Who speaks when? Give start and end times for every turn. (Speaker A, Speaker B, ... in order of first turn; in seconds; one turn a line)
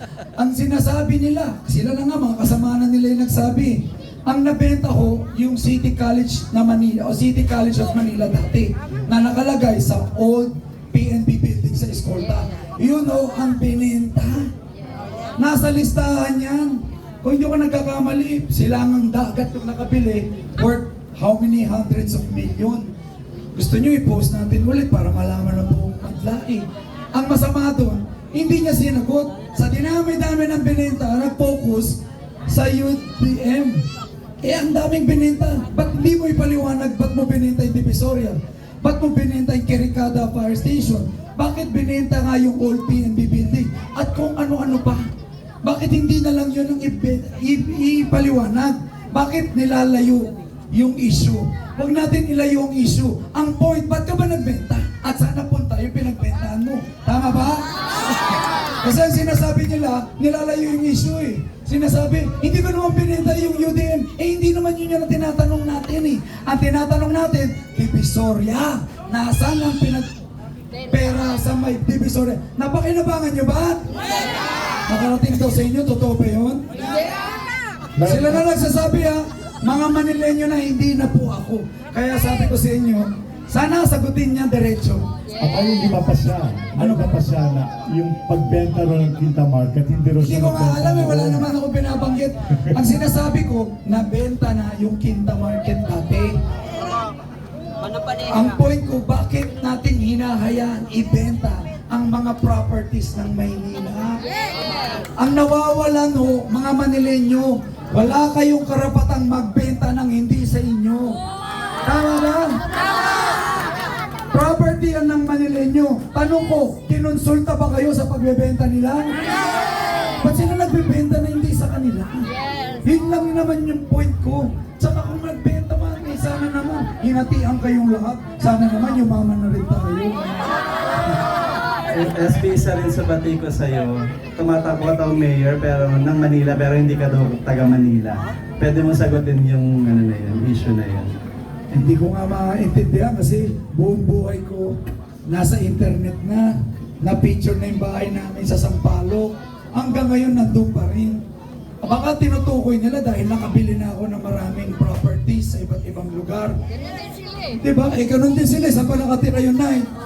Speaker A: 0.4-14.5
Speaker A: 15.4-22.9
Speaker A: 23.5-33.8
Speaker A: 34.4-45.1
Speaker A: 45.6-57.6
Speaker A: 58.8-70.1
Speaker A: 70.9-73.8
Speaker A: 74.9-76.6
Speaker B: 78.0-78.5
Speaker A: 78.0-85.0
Speaker B: 85.4-91.5
Speaker A: 86.8-87.2
Speaker A: 90.2-96.3
Speaker A: 98.3-104.2
Speaker A: 105.2-111.2
Speaker A: 111.8-112.5
Speaker A: 114.3-119.2
Speaker A: 120.2-122.3
Speaker A: 122.8-130.6
Speaker C: 131.9-141.1
Speaker A: 141.7-144.7
Speaker A: 145.3-146.5
Speaker A: 147.0-151.2
Speaker A: 151.8-156.5
Speaker A: 157.6-159.8